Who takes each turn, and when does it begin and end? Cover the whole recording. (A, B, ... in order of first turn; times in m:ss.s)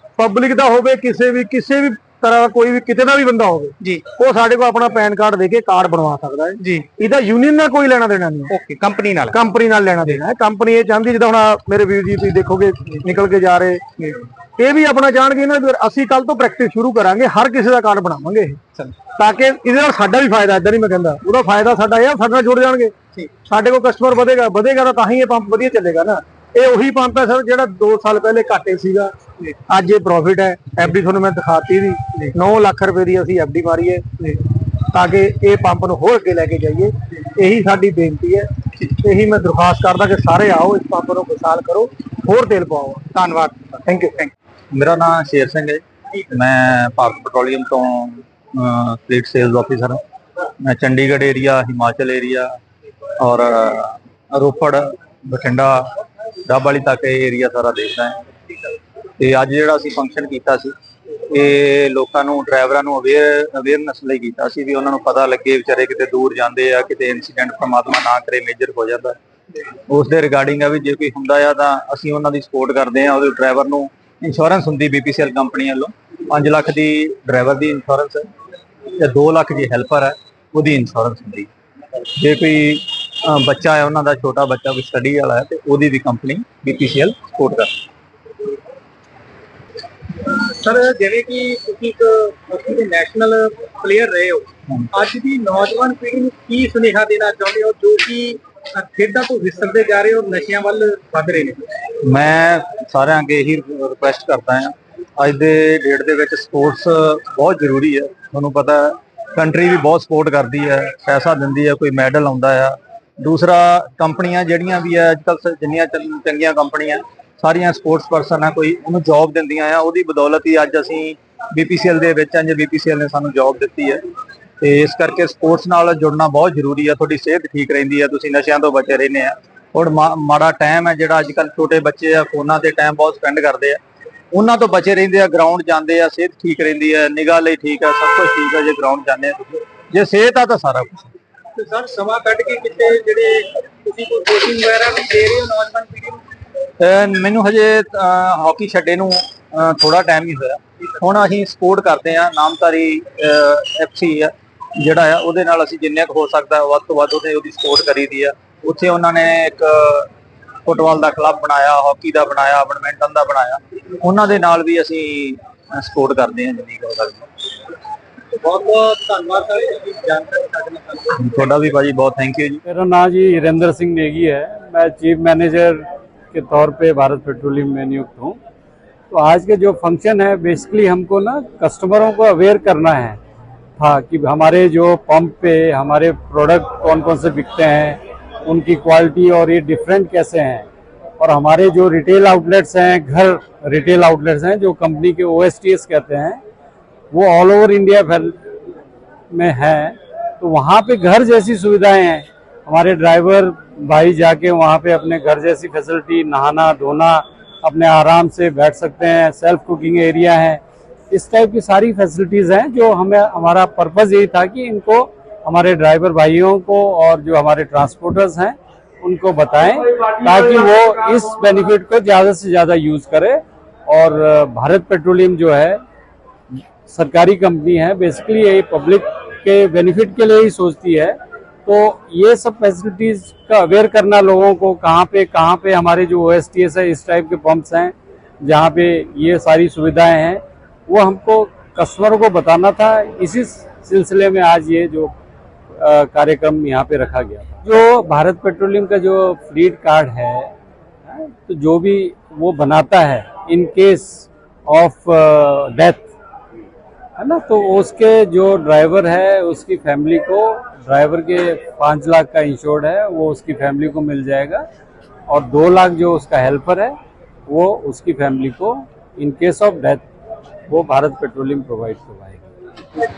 0:00.2-0:08.5 A
0:06.6-0:06.9 B
0:08.5-0:09.3 B
0:09.3-0:13.8 A
0:14.0-0:14.3 B
0:14.6-0:18.6 A
0:19.1-0:29.1 A
0:29.7-0:34.0 A
0:34.9-0:38.5 A
0:39.0-0:43.1 A
0:43.1-0:43.8 B
0:43.8-0:44.3 A
0:44.7-0:50.0 C
0:50.6-0:52.6 C
0:53.2-0:55.9 C
0:56.4-0:58.3 C
0:59.2-1:00.7 C
1:01.3-1:09.2 C
1:09.9-1:18.3 C
1:19.0-1:21.5 C
1:22.1-1:27.8 C
1:30.2-1:41.7 B
1:42.0-2:04.0 C
2:04.6-2:13.8 C
2:14.3-2:21.1 C
2:21.6-2:26.2 B
2:26.8-2:40.1 C
2:40.6-2:47.3 C
2:48.4-2:51.1 B
2:51.1-2:52.6 C
2:52.6-2:55.8 D
2:56.3-2:58.4 D
2:59.1-3:03.2 D
3:03.8-3:10.7 D
3:11.2-3:16.4 D
3:17.1-3:18.3 D
3:19.3-3:45.8 D
3:46.9-4:05.1 D
4:05.8-4:10.5 D
4:11.0-4:16.1 D
4:17.2-4:24.6 D
4:25.3-4:26.9 D
4:27.5-4:30.0 D
4:30.7-4:32.4 D